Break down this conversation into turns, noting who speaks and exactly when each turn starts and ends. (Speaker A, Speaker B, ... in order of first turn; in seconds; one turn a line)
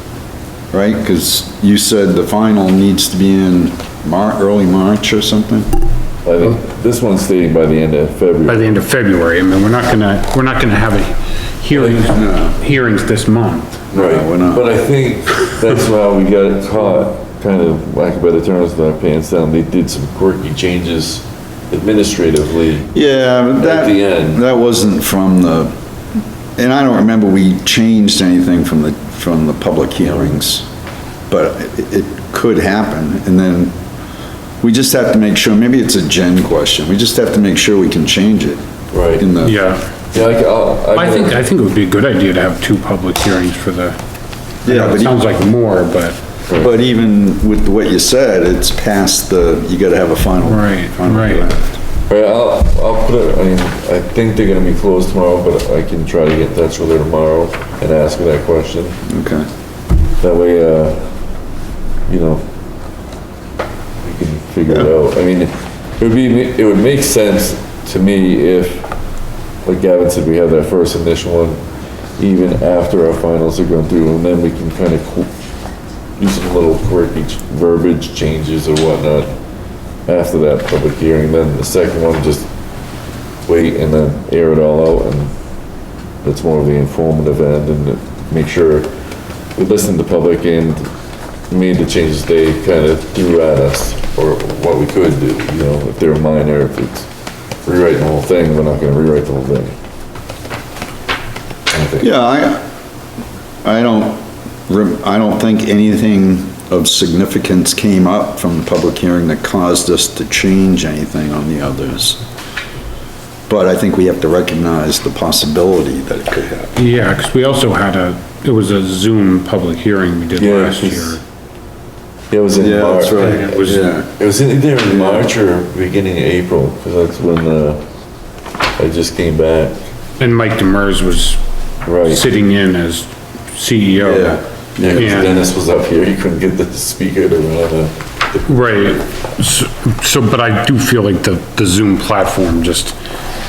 Speaker A: 0.7-5.7
Speaker B: 6.2-8.7
Speaker C: 8.5-13.8
Speaker A: 12.1-12.5
Speaker A: 13.9-14.7
Speaker B: 13.9-22.9
Speaker A: 22.9-25.7
Speaker B: 23.6-24.4
Speaker A: 26.6-30.6
Speaker A: 31.3-33.7
Speaker A: 34.6-38.6
Speaker B: 38.9-39.3
Speaker A: 39.2-39.5
Speaker C: 39.4-39.8
Speaker B: 40.1-41.4
Speaker C: 40.9-44.0
Speaker A: 44.6-45.2
Speaker C: 44.7-46.2
Speaker A: 46.6-51.8
Speaker C: 50.4-51.4
Speaker B: 52.1-59.0
Speaker A: 59.0-59.5
Speaker B: 60.2-61.1
Speaker B: 62.1-62.4
Speaker B: 64.0-68.9
Speaker B: 69.6-71.6
Speaker B: 72.2-75.3
Speaker B: 76.2-79.3
Speaker B: 80.1-82.5
Speaker B: 83.5-85.3
Speaker B: 86.2-88.9
Speaker B: 89.5-90.9
Speaker B: 91.5-97.1
Speaker B: 97.6-99.7
Speaker B: 101.7-102.0
Speaker A: 102.0-102.6
Speaker A: 103.6-112.2
Speaker A: 113.5-116.7
Speaker C: 116.8-121.2
Speaker B: 120.4-121.2
Speaker B: 122.3-127.8
Speaker A: 122.5-124.1
Speaker C: 123.2-123.9
Speaker A: 124.9-125.2
Speaker B: 128.8-129.8
Speaker C: 130.2-131.4
Speaker B: 131.8-132.2
Speaker C: 132.0-135.3
Speaker A: 134.0-134.9
Speaker B: 134.8-139.0
Speaker C: 138.5-143.0